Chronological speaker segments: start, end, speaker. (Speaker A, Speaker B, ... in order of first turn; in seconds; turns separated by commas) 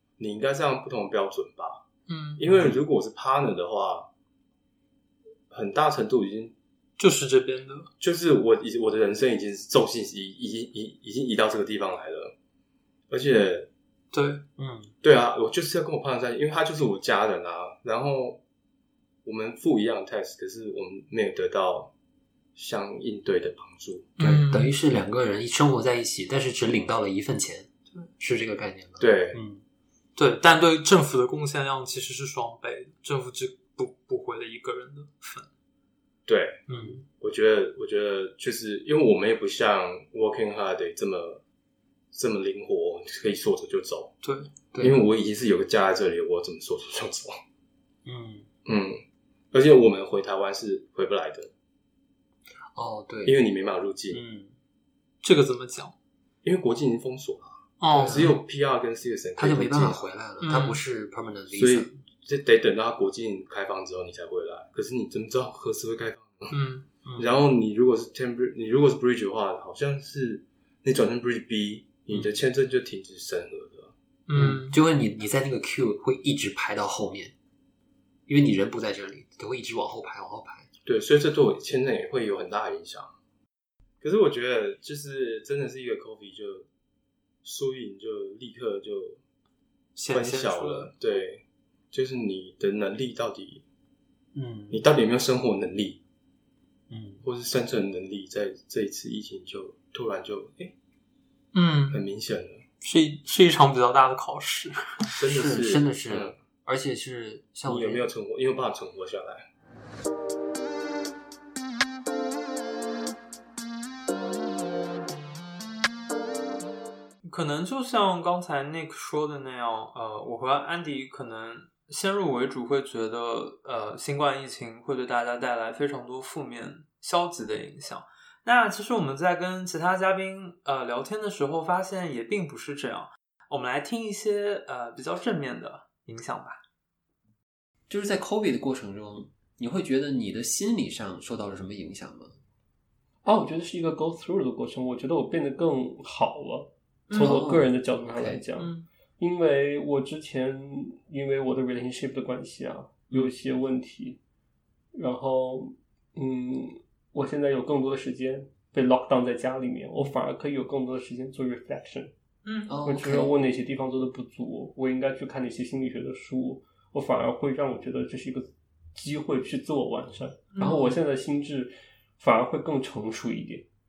Speaker A: 0.2-1.8, Speaker B: 2.1-2.7, Speaker A: 2.4-4.1, Speaker A: 5.5-6.5, Speaker B: 7.0-7.9, Speaker A: 8.0-12.3, Speaker A: 13.1-13.7, Speaker B: 14.1-14.4, Speaker C: 14.6-14.9, Speaker A: 15.0-18.4, Speaker A: 19.2-21.9, Speaker A: 22.6-24.4, Speaker B: 24.2-24.7, Speaker C: 24.5-29.6, Speaker A: 29.0-29.4, Speaker B: 30.2-35.5, Speaker A: 36.3-36.6, Speaker B: 36.7-37.0, Speaker C: 36.7-37.0, Speaker A: 37.2-41.4, Speaker A: 42.1-44.1, Speaker B: 44.2-44.5, Speaker C: 44.7-45.0, Speaker A: 44.8-47.4, Speaker C: 48.0-48.5, Speaker A: 48.7-51.5, Speaker C: 52.8-53.4, Speaker A: 53.2-54.2, Speaker C: 54.1-54.6, Speaker B: 55.2-55.9, Speaker A: 56.4-60.0, Speaker B: 57.8-58.4, Speaker C: 57.9-58.4, Speaker C: 59.4-61.9, Speaker B: 60.4-60.8, Speaker A: 61.5-66.6, Speaker B: 66.5-66.9, Speaker C: 67.0-67.3, Speaker A: 67.2-73.9, Speaker B: 74.3-74.8, Speaker C: 74.3-77.3, Speaker C: 78.3-80.7, Speaker A: 80.9-83.1, Speaker A: 84.0-86.7, Speaker A: 87.4-89.2, Speaker B: 90.0-90.9, Speaker A: 90.1-93.6, Speaker C: 94.3-94.8, Speaker A: 94.7-96.0, Speaker C: 96.9-97.2, Speaker A: 97.2-100.7, Speaker B: 101.5-102.0, Speaker A: 101.9-102.6, Speaker B: 102.8-105.0, Speaker A: 105.2-106.3, Speaker C: 105.2-108.0, Speaker A: 107.7-109.5, Speaker B: 117.2-136.6, Speaker C: 137.9-142.4, Speaker D: 143.2-154.2, Speaker C: 147.1-148.4, Speaker B: 148.6-148.9, Speaker D: 154.9-162.1, Speaker B: 162.4-162.7, Speaker C: 162.7-163.4, Speaker D: 162.8-173.7, Speaker B: 170.5-171.0